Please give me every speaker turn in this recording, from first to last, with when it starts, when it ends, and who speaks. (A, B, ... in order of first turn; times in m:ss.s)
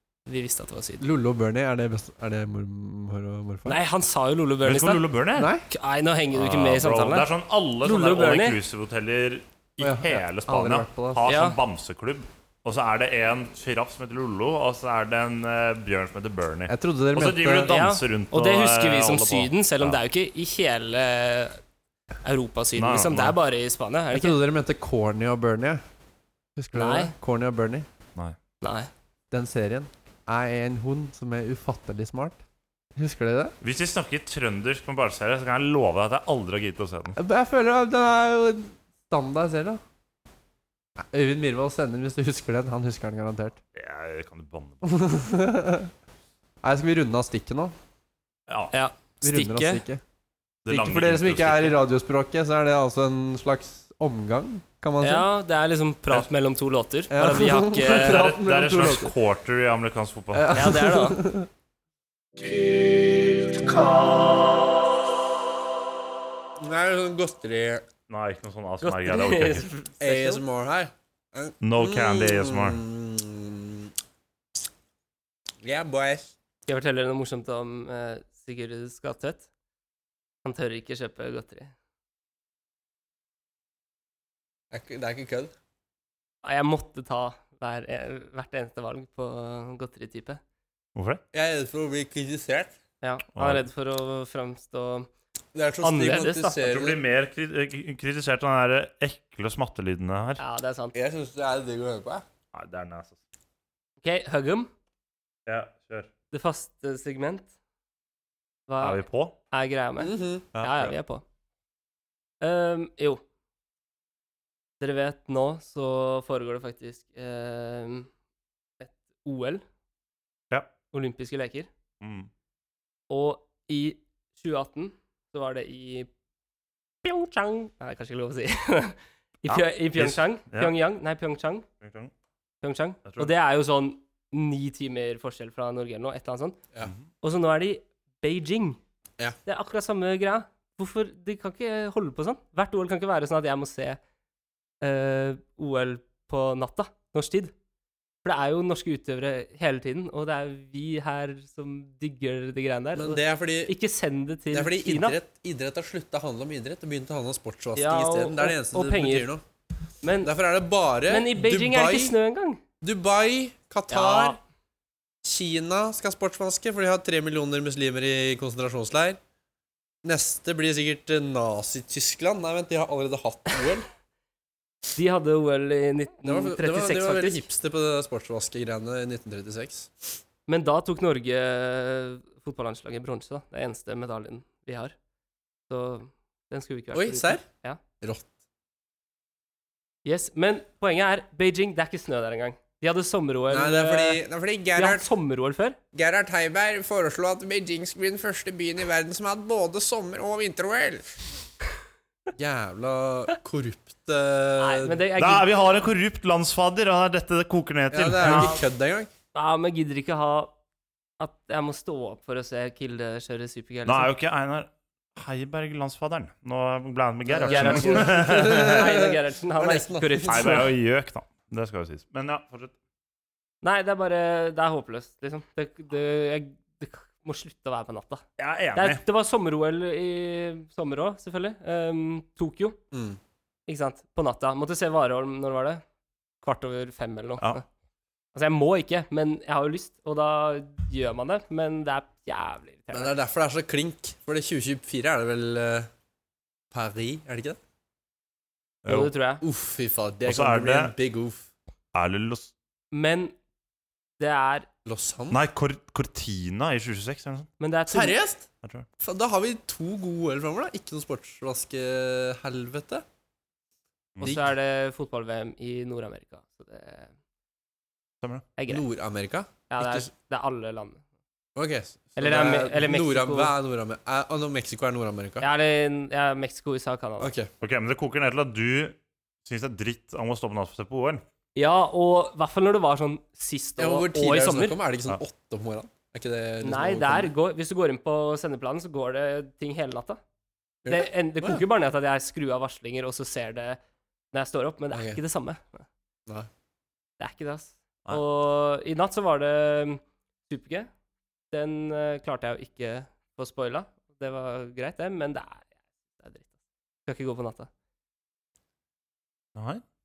0:00.2-0:01.1 A
0:01.0-0:03.8 B
0:03.6-0:05.0 A
0:04.6-0:05.5 C
0:05.4-0:05.6 B
0:05.7-0:07.3 A
0:06.3-0:20.0 C
0:07.8-0:08.6 A
0:09.8-0:11.3 B
0:11.2-0:11.6 A
0:16.7-0:17.7 B
0:17.6-0:21.6 A
0:22.2-0:24.4 A
0:22.8-0:23.4 C
0:24.1-0:25.8 B
0:26.6-0:27.9 B
0:26.7-0:27.1 A
0:28.6-0:28.9 A
0:29.3-0:32.4 B
0:32.9-0:33.5 B
0:33.6-0:37.2 C
0:37.2-0:39.8 B
0:41.0-0:43.6 B
0:43.7-0:44.9 C
0:44.8-0:45.9 B
0:46.6-0:47.7 B
0:48.5-0:48.7 C
0:48.7-0:49.8 A
0:49.2-0:50.0 B
0:50.6-0:51.8 C
0:50.7-0:55.3 B
0:55.0-0:58.2 A
0:57.1-0:59.1 B
0:57.9-1:00.6 C
1:00.3-1:01.5 B
1:00.5-1:01.2 A
1:02.6-1:04.1 B
1:06.6-1:07.9 B
1:08.1-1:09.7 C
1:08.8-1:10.4 A
1:10.0-1:13.9 B
1:11.6-1:12.8 C
1:15.6-1:16.3 B
1:16.6-1:19.5 A
1:20.4-1:21.7 A
1:24.7-1:25.5 B
1:26.4-1:30.4 A
1:30.9-1:31.2 C
1:31.3-1:32.7 B
1:33.0-1:35.1 A
1:33.3-1:33.6 C
1:35.5-1:37.0 B
1:35.8-1:36.6 A
1:36.6-1:40.4 C
1:40.4-1:40.9 A
1:40.9-1:42.2 B
1:42.5-1:43.2 C
1:44.0-1:44.7 A
1:45.4-1:46.1 C
1:46.3-1:47.5 A
1:48.7-1:51.2 A
1:48.8-1:49.3 C
1:50.0-1:50.4 B
1:50.5-1:50.9 C
1:52.4-1:53.2 A
1:54.8-1:58.1 A
1:58.8-1:59.6 A
2:00.9-2:01.7 A
2:02.0-2:02.3 C
2:03.1-2:06.1 A
2:07.0-2:11.7 A
2:09.5-2:10.7 C
2:11.8-2:12.1 C
2:12.6-2:16.6 A
2:17.2-2:18.8 A
2:19.4-2:24.0 A
2:24.8-2:27.5 A
2:28.2-2:35.2 A
2:32.9-2:33.7 B
2:34.5-2:39.4 B
2:37.8-2:39.3 A
2:40.0-2:40.3 A
2:40.2-2:42.1 B
2:41.1-2:42.6 A
2:42.8-2:44.4 B
2:43.9-2:44.4 A
2:45.2-2:49.2 B
2:50.0-2:53.9 B
2:54.9-2:57.4 A
2:56.2-3:00.1 B
3:00.5-3:04.9 A
3:05.7-3:07.8 A
3:06.9-3:07.4 B
3:08.0-3:08.3 B
3:10.0-3:14.2 A
3:13.5-3:15.1 B
3:14.7-3:15.8 A
3:15.9-3:21.1 B
3:22.3-3:25.0 B
3:24.6-3:25.5 A
3:25.2-3:28.5 C
3:27.9-3:29.1 B
3:28.2-3:28.6 A
3:29.3-3:30.5 A
3:31.2-3:34.1 A
3:33.8-3:38.8 C
3:37.3-3:40.6 B
3:37.4-3:40.7 A
3:40.3-3:42.7 C
3:43.6-3:48.2 A
3:48.4-3:49.0 C
3:48.7-3:52.8 A
3:52.9-3:53.2 B
3:53.7-3:55.8 A
3:56.4-3:57.6 A
3:58.3-4:03.1 A
4:02.9-4:05.9 B
4:06.7-4:07.6 B
4:08.8-4:09.1 C
4:08.8-4:09.4 A
4:09.4-4:11.5 B
4:10.2-4:10.9 C
4:11.9-4:12.5 C
4:12.9-4:13.3 A
4:14.2-4:14.7 A
4:14.8-4:15.4 B
4:15.3-4:17.5 C
4:17.6-4:18.2 A
4:17.9-4:18.5 B
4:19.0-4:23.0 B
4:24.2-4:24.5 B
4:24.2-4:27.1 A
4:28.6-4:28.8 A
4:28.7-4:30.1 B
4:29.7-4:31.0 A
4:31.5-4:35.5 B
4:32.2-4:33.5 A
4:35.4-4:37.3 A
4:37.2-4:37.5 B
4:37.6-4:41.2 C
4:41.6-4:44.8 A
4:43.8-4:47.3 B
4:46.6-4:50.2 A
4:50.8-4:51.6 B
4:50.9-4:53.8 A
4:54.3-4:55.8 A
4:54.9-4:55.2 B
4:57.2-5:00.9 A
5:01.5-5:06.5 A
5:07.0-5:07.7 A
5:09.6-5:09.8 C